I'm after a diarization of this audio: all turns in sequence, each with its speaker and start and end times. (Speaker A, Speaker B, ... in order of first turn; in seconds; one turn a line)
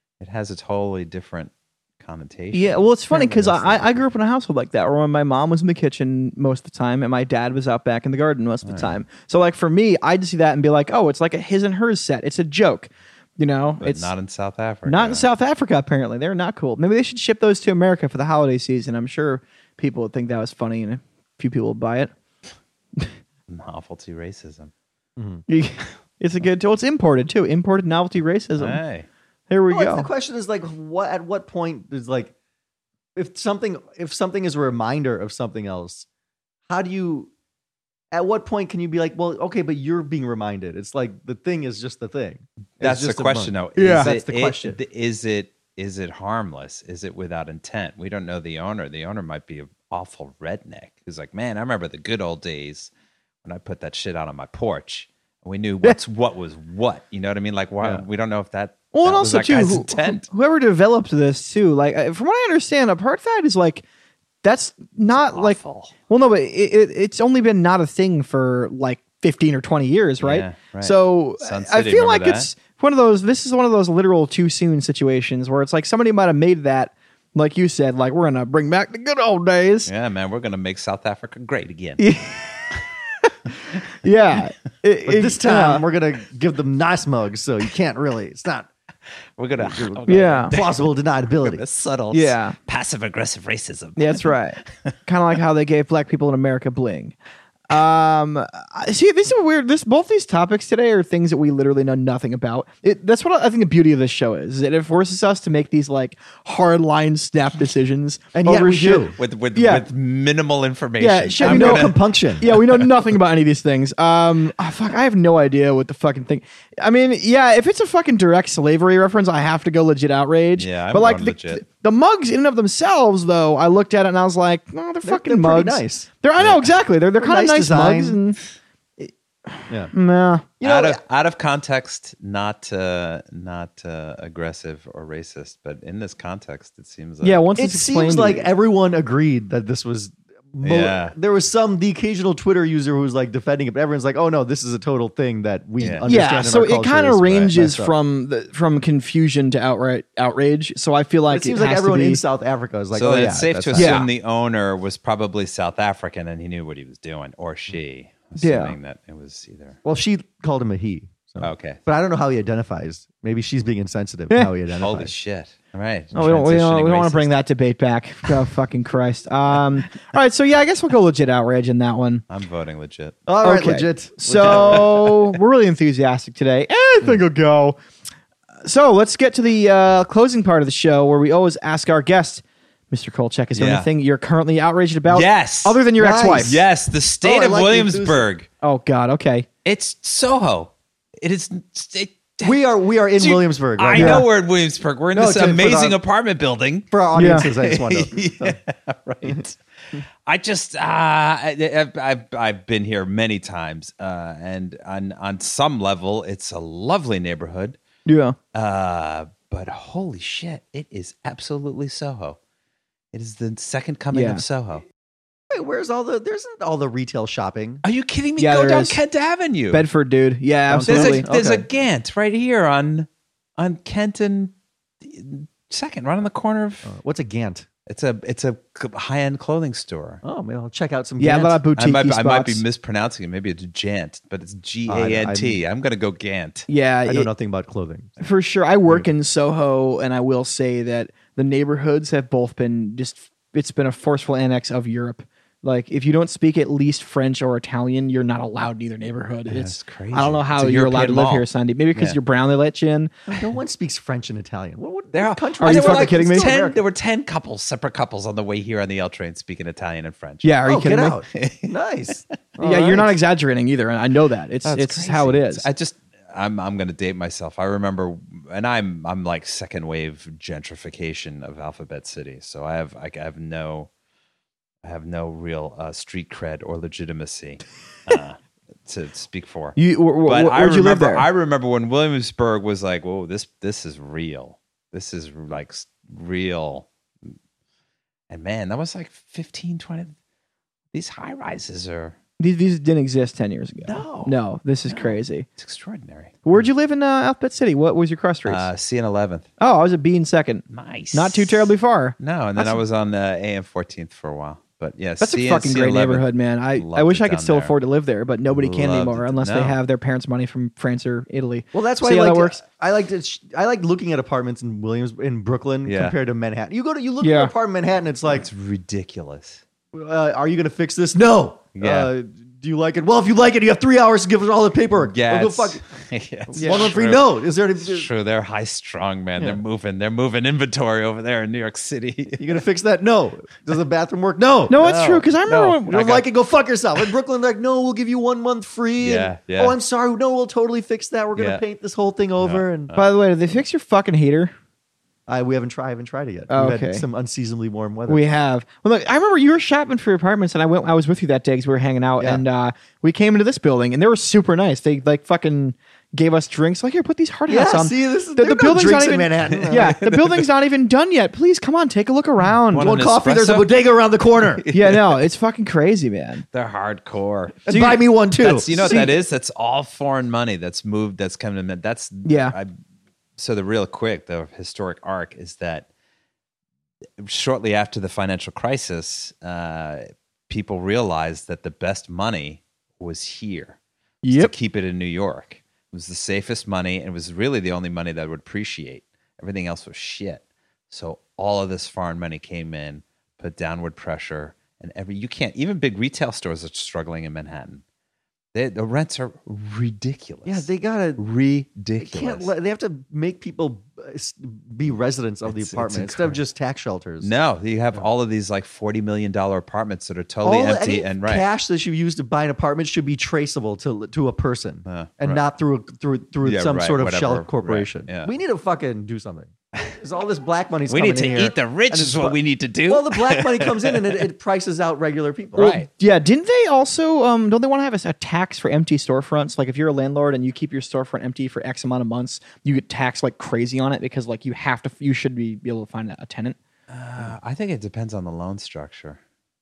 Speaker A: 0.2-4.0
Speaker B: 2.5-14.1
Speaker A: 8.7-8.9
Speaker A: 13.8-15.3
Speaker B: 14.9-22.1
Speaker A: 23.5-24.7
Speaker C: 25.2-25.4
Speaker B: 25.5-28.8
Speaker A: 28.6-29.1
Speaker B: 29.5-30.1
Speaker C: 29.7-32.3
Speaker C: 33.1-36.1
Speaker C: 36.7-37.3
Speaker C: 38.1-44.8
Speaker A: 42.8-52.9
Speaker B: 43.8-44.1
Speaker A: 53.4-60.2
Speaker B: 58.9-63.8
Speaker B: 64.4-79.9
Speaker A: 65.3-65.9
Speaker A: 70.2-72.5
Speaker A: 79.9-82.0
Speaker B: 82.0-83.3
Speaker B: 83.9-85.8
Speaker C: 85.1-88.7
Speaker A: 89.4-90.9
Speaker C: 89.6-91.6
Speaker B: 90.1-90.5
Speaker A: 91.4-94.9
Speaker B: 92.1-92.6
Speaker B: 94.0-97.2
Speaker B: 97.7-109.9
Speaker C: 108.3-109.2
Speaker A: 109.2-112.6
Speaker B: 111.0-128.4
Speaker C: 111.4-112.5
Speaker A: 120.6-121.6
Speaker C: 125.0-126.1
Speaker C: 127.2-128.2
Speaker B: 129.0-130.5
Speaker C: 130.6-131.0
Speaker A: 130.6-137.4
Speaker B: 137.2-138.5
Speaker C: 137.6-147.9
Speaker A: 140.6-141.2
Speaker A: 145.8-146.1
Speaker B: 146.1-152.2
Speaker C: 151.3-154.1
Speaker A: 153.0-159.8
Speaker B: 153.8-154.1
Speaker B: 158.4-158.8
Speaker C: 159.8-165.1
Speaker A: 161.4-161.8
Speaker A: 164.8-167.3
Speaker B: 166.2-172.2
Speaker A: 172.3-173.2
Speaker C: 173.3-174.9
Speaker B: 173.4-177.8
Speaker A: 174.4-175.3
Speaker B: 178.6-186.6
Speaker A: 183.6-183.9
Speaker A: 185.1-188.5
Speaker C: 186.0-186.7
Speaker C: 187.2-188.3
Speaker B: 188.6-189.5
Speaker A: 189.7-192.6
Speaker C: 192.4-194.3
Speaker A: 193.2-207.8
Speaker B: 193.9-194.2
Speaker C: 195.1-196.0
Speaker C: 196.9-198.6
Speaker B: 197.2-197.5
Speaker B: 208.1-208.4
Speaker A: 208.5-212.4
Speaker A: 213.1-214.8
Speaker B: 214.1-214.4
Speaker C: 215.5-217.8
Speaker A: 217.8-219.9
Speaker B: 218.4-219.0
Speaker B: 219.7-221.2
Speaker C: 220.7-221.7
Speaker A: 220.8-226.9
Speaker C: 226.8-227.7
Speaker A: 227.9-230.2
Speaker C: 230.2-231.6
Speaker B: 231.2-232.6
Speaker A: 231.8-236.7
Speaker C: 234.9-235.6
Speaker B: 236.7-237.3
Speaker C: 237.1-238.1
Speaker B: 238.2-253.1
Speaker A: 249.5-252.2
Speaker C: 253.3-256.8
Speaker A: 255.1-260.6
Speaker B: 255.6-256.5
Speaker B: 260.4-261.2
Speaker C: 260.6-263.2
Speaker A: 261.3-261.7
Speaker B: 262.6-265.7
Speaker A: 264.7-273.9
Speaker A: 274.8-287.3
Speaker B: 279.8-281.2
Speaker A: 288.3-290.1
Speaker A: 290.9-292.2
Speaker B: 292.4-295.5
Speaker A: 293.9-294.3
Speaker A: 294.9-296.6
Speaker B: 296.4-298.7
Speaker A: 298.5-299.5
Speaker B: 299.6-302.8
Speaker A: 300.7-307.7
Speaker B: 305.2-312.6
Speaker A: 308.5-309.8
Speaker C: 311.7-318.5
Speaker A: 315.9-316.1
Speaker B: 317.2-317.5
Speaker A: 318.3-319.6
Speaker C: 319.9-325.8
Speaker A: 321.8-322.1
Speaker A: 325.1-332.6
Speaker B: 326.5-326.9
Speaker C: 326.6-328.1
Speaker C: 332.4-334.8
Speaker B: 334.7-336.2
Speaker A: 334.8-336.0
Speaker C: 335.9-342.9
Speaker A: 339.0-339.8
Speaker A: 341.4-341.6
Speaker A: 342.4-343.1
Speaker B: 343.0-344.5
Speaker C: 345.3-348.3
Speaker B: 346.5-347.0
Speaker B: 348.1-363.0
Speaker C: 357.5-360.0
Speaker A: 359.5-360.4
Speaker A: 362.7-363.7
Speaker C: 362.8-364.6
Speaker A: 364.6-365.2
Speaker B: 364.7-366.4
Speaker A: 366.5-367.7
Speaker B: 367.7-368.0
Speaker C: 367.7-369.1
Speaker A: 368.4-372.7
Speaker B: 368.8-369.2
Speaker B: 372.2-372.6
Speaker A: 373.4-375.9
Speaker A: 377.2-383.8
Speaker B: 384.2-384.5
Speaker A: 384.3-397.8
Speaker A: 398.5-400.7
Speaker C: 400.4-401.2
Speaker A: 401.2-402.5
Speaker C: 402.0-407.3
Speaker A: 405.4-406.4
Speaker A: 407.2-411.4
Speaker C: 410.4-425.8
Speaker A: 414.9-415.4
Speaker A: 416.4-418.3
Speaker A: 420.9-424.0
Speaker A: 425.6-425.9
Speaker B: 425.6-436.6
Speaker A: 436.9-439.2